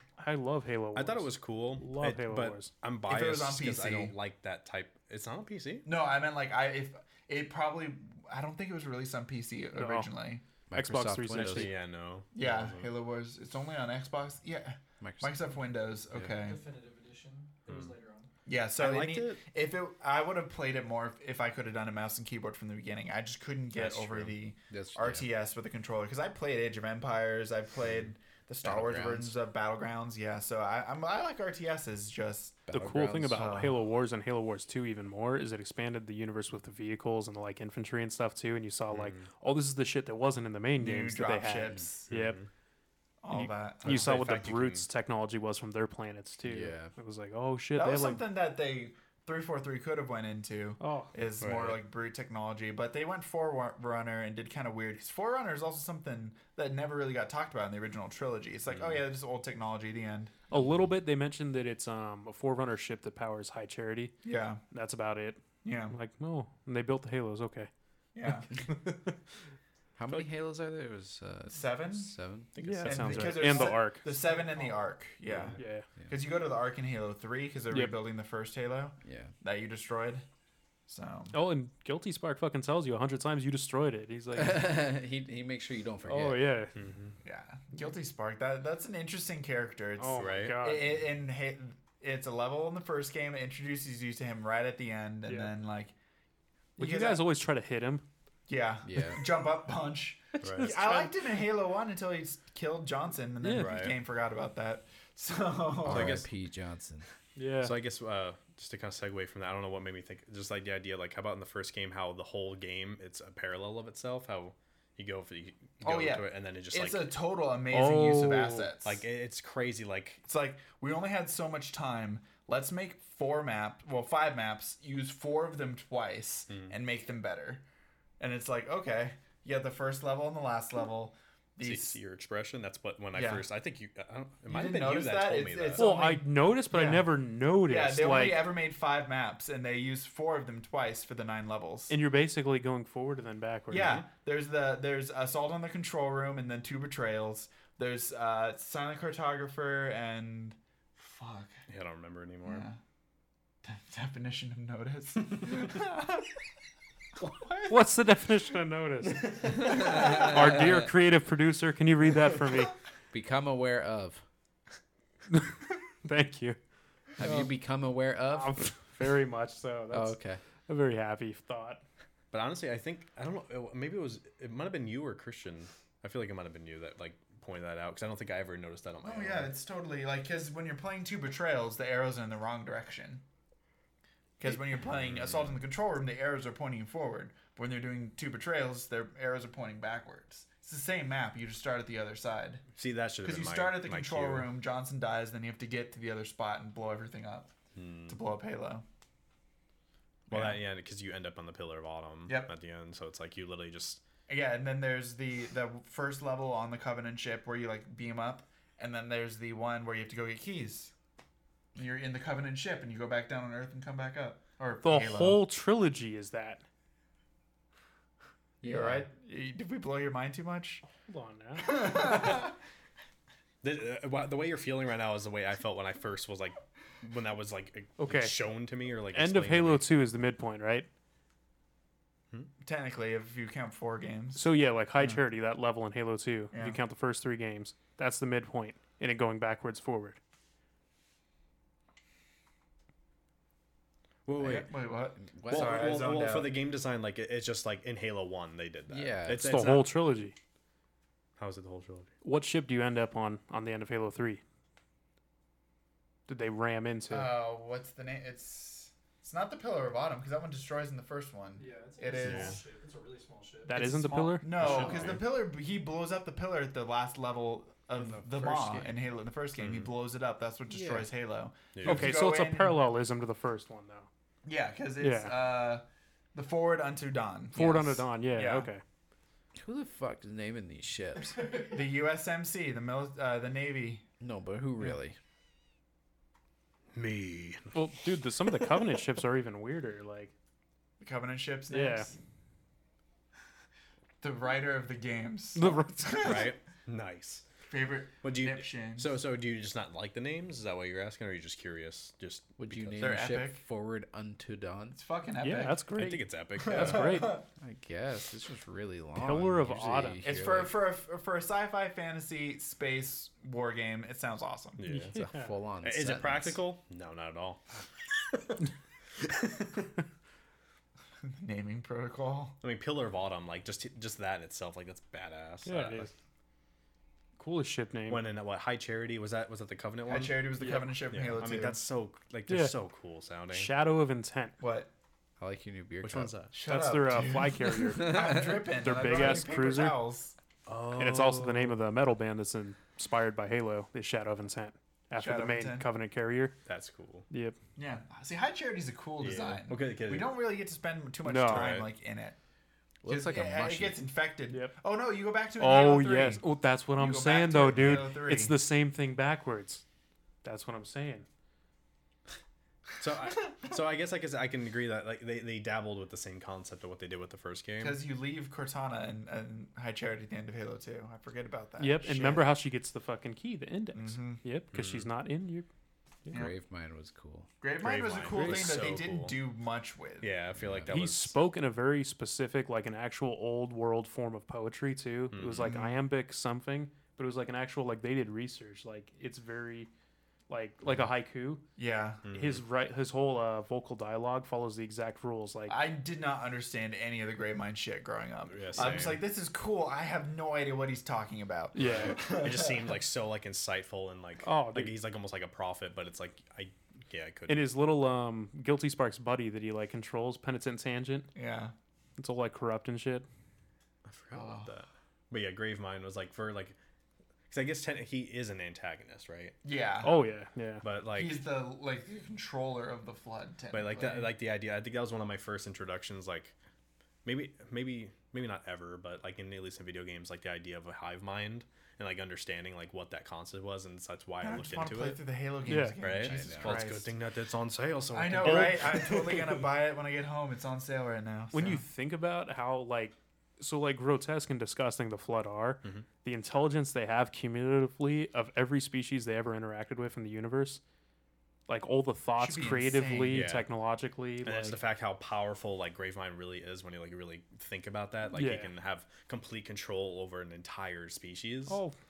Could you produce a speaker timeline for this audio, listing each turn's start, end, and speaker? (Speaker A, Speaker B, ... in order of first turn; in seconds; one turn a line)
Speaker A: 0.2-2.7
Speaker B: 0.9-5.9
Speaker C: 3.1-4.1
Speaker C: 5.8-10.4
Speaker A: 9.8-10.1
Speaker D: 10.7-11.7
Speaker A: 10.7-11.7
Speaker B: 11.3-12.9
Speaker C: 12.3-16.6
Speaker D: 15.0-15.5
Speaker D: 16.1-16.4
Speaker E: 16.4-18.3
Speaker B: 17.7-17.9
Speaker C: 18.4-32.7
Speaker B: 18.8-19.4
Speaker D: 23.8-25.3
Speaker D: 28.6-29.3
Speaker D: 32.7-33.4
Speaker A: 32.7-42.4
Speaker C: 33.3-33.8
Speaker B: 38.9-39.3
Speaker C: 40.8-42.1
Speaker B: 42.1-42.5
Speaker C: 43.2-44.3
Speaker A: 43.3-48.2
Speaker B: 43.8-44.9
Speaker D: 46.4-46.9
Speaker C: 47.7-60.3
Speaker A: 50.8-51.1
Speaker B: 51.4-51.8
Speaker B: 58.7-59.0
Speaker A: 60.5-64.1
Speaker C: 64.2-64.6
Speaker A: 64.7-67.7
Speaker C: 65.6-66.0
Speaker C: 68.1-68.5
Speaker D: 70.0-72.5
Speaker C: 71.5-72.1
Speaker B: 72.5-73.5
Speaker A: 72.6-74.1
Speaker C: 72.8-80.2
Speaker E: 73.5-74.8
Speaker A: 75.6-75.8
Speaker D: 79.0-79.3
Speaker C: 80.9-81.4
Speaker A: 81.3-84.7
Speaker D: 84.3-86.5
Speaker A: 86.0-86.7
Speaker B: 86.7-87.1
Speaker C: 87.2-95.9
Speaker A: 90.0-90.9
Speaker B: 90.2-90.6
Speaker C: 96.8-97.2
Speaker A: 96.8-98.0
Speaker C: 98.5-106.2
Speaker D: 98.8-99.2
Speaker B: 100.4-100.7
Speaker A: 100.5-101.1
Speaker A: 103.4-103.8
Speaker B: 103.5-104.0
Speaker D: 105.8-107.1
Speaker B: 105.8-106.3
Speaker A: 107.3-107.7
Speaker B: 107.6-117.2
Speaker C: 115.8-119.0
Speaker A: 117.7-118.7
Speaker B: 118.8-120.2
Speaker C: 120.2-127.6
Speaker B: 126.5-126.7
Speaker C: 128.2-132.0
Speaker B: 131.6-135.8
Speaker C: 133.1-133.4
Speaker C: 134.5-137.1
Speaker A: 135.8-138.4
Speaker C: 137.6-141.9
Speaker A: 141.9-143.9
Speaker C: 143.7-151.6
Speaker B: 143.7-144.0
Speaker B: 151.7-152.7
Speaker C: 152.4-152.8
Speaker C: 153.6-156.3
Speaker C: 157.3-157.9
Speaker A: 157.6-162.7
Speaker D: 163.1-164.2
Speaker A: 166.0-166.6
Speaker A: 167.2-167.5
Speaker D: 167.2-168.8
Speaker A: 168.3-171.8
Speaker D: 169.9-170.4
Speaker B: 172.3-179.5
Speaker C: 179.0-183.2
Speaker C: 184.4-192.6
Speaker B: 184.9-185.5
Speaker B: 192.8-194.5
Speaker C: 193.2-197.5
Speaker B: 197.7-198.2
Speaker C: 198.1-198.8
Speaker C: 200.3-200.6
Speaker B: 200.3-204.0
Speaker C: 204.3-210.9
Speaker C: 211.7-215.4
Speaker A: 214.8-216.6
Speaker D: 218.6-219.1
Speaker C: 218.6-220.8
Speaker A: 221.0-222.1
Speaker C: 221.6-222.5
Speaker B: 223.6-229.9
Speaker A: 228.0-228.3
Speaker A: 229.1-230.9
Speaker C: 232.6-235.2
Speaker A: 234.3-240.2
Speaker C: 236.5-236.8
Speaker B: 244.2-244.7
Speaker C: 244.4-246.6
Speaker D: 245.2-245.9
Speaker B: 245.5-249.9
Speaker D: 248.9-249.5
Speaker A: 249.3-250.3
Speaker B: 251.4-252.1
Speaker A: 252.2-254.4
Speaker A: 256.3-257.3
Speaker C: 257.1-262.6
Speaker E: 261.6-263.8
Speaker B: 262.2-262.6
Speaker A: 263.6-264.7
Speaker C: 263.7-272.9
Speaker B: 264.6-265.2
Speaker D: 264.6-265.0
Speaker B: 268.0-268.9
Speaker B: 269.6-269.9
Speaker D: 270.7-271.1
Speaker B: 271.7-272.1
Speaker A: 271.8-274.1
Speaker C: 274.4-278.7
Speaker A: 275.0-275.3
Speaker A: 277.5-278.8
Speaker D: 279.6-281.4
Speaker C: 281.5-284.1
Speaker D: 284.2-285.2
Speaker B: 286.9-287.9
Speaker A: 287.7-290.3
Speaker B: 288.4-288.7
Speaker C: 291.0-292.2
Speaker A: 291.7-292.1
Speaker C: 294.2-296.6
Speaker A: 295.5-296.4
Speaker B: 296.2-297.4
Speaker C: 297.7-299.1
Speaker B: 298.2-303.2
Speaker D: 302.6-305.0
Speaker C: 303.0-303.6
Speaker C: 304.9-305.8
Speaker A: 305.4-307.4
Speaker B: 305.9-307.2
Speaker C: 306.6-307.4
Speaker D: 307.6-310.8
Speaker A: 309.1-310.2
Speaker C: 310.2-314.8
Speaker B: 314.8-315.1
Speaker A: 314.9-315.5
Speaker D: 315.1-316.6
Speaker B: 315.8-318.7
Speaker B: 319.2-319.8
Speaker C: 321.2-322.6
Speaker B: 322.6-326.1
Speaker A: 325.6-326.1
Speaker A: 327.4-328.2
Speaker B: 328.1-330.5
Speaker C: 330.1-331.8
Speaker A: 330.6-330.9
Speaker B: 331.1-333.7
Speaker A: 332.5-332.7
Speaker A: 333.5-334.6
Speaker C: 334.6-334.9
Speaker D: 335.4-336.3
Speaker B: 336.0-336.5
Speaker C: 336.5-340.4
Speaker A: 336.6-340.0
Speaker B: 340.7-341.8
Speaker A: 340.9-346.5
Speaker C: 345.1-345.9
Speaker B: 346.6-347.2
Speaker A: 347.3-347.6
Speaker C: 347.8-352.4
Speaker B: 349.2-350.4
Speaker A: 351.2-351.7
Speaker B: 351.4-351.9
Speaker D: 353.0-354.0
Speaker C: 353.1-358.5
Speaker A: 354.5-354.7
Speaker A: 355.6-359.8
Speaker A: 360.4-361.2
Speaker B: 363.0-368.0
Speaker C: 367.8-372.5
Speaker A: 371.8-375.7
Speaker C: 373.9-374.4
Speaker B: 374.7-375.1
Speaker D: 376.3-377.5
Speaker C: 377.6-380.3
Speaker B: 377.8-379.4
Speaker A: 378.3-378.8
Speaker B: 380.2-381.3
Speaker D: 380.6-380.9
Speaker A: 380.9-389.9
Speaker B: 385.3-385.7
Speaker C: 385.6-386.0
Speaker A: 390.5-391.6
Speaker C: 391.8-392.2
Speaker B: 392.2-392.6
Speaker A: 392.3-395.8
Speaker C: 395.7-403.0
Speaker B: 398.4-399.2
Speaker A: 401.7-402.3
Speaker B: 401.8-407.7
Speaker A: 404.4-405.0
Speaker A: 407.5-411.3
Speaker C: 411.3-411.7
Speaker A: 412.2-413.2
Speaker B: 414.1-416.8
Speaker C: 414.3-414.7
Speaker B: 417.5-419.5
Speaker C: 419.6-420.2
Speaker A: 420.0-420.8
Speaker B: 420.8-421.4
Speaker C: 421.1-424.3
Speaker B: 423.7-426.5
Speaker B: 427.2-435.2
Speaker C: 434.4-437.1
Speaker A: 435.7-436.0
Speaker B: 436.0-439.6
Speaker D: 436.2-436.8
Speaker C: 438.1-441.8
Speaker A: 438.4-438.8
Speaker A: 441.5-450.8
Speaker A: 451.7-454.8
Speaker C: 452.4-453.5
Speaker B: 453.3-453.7
Speaker B: 454.4-461.8
Speaker A: 458.3-458.7
Speaker A: 461.7-461.9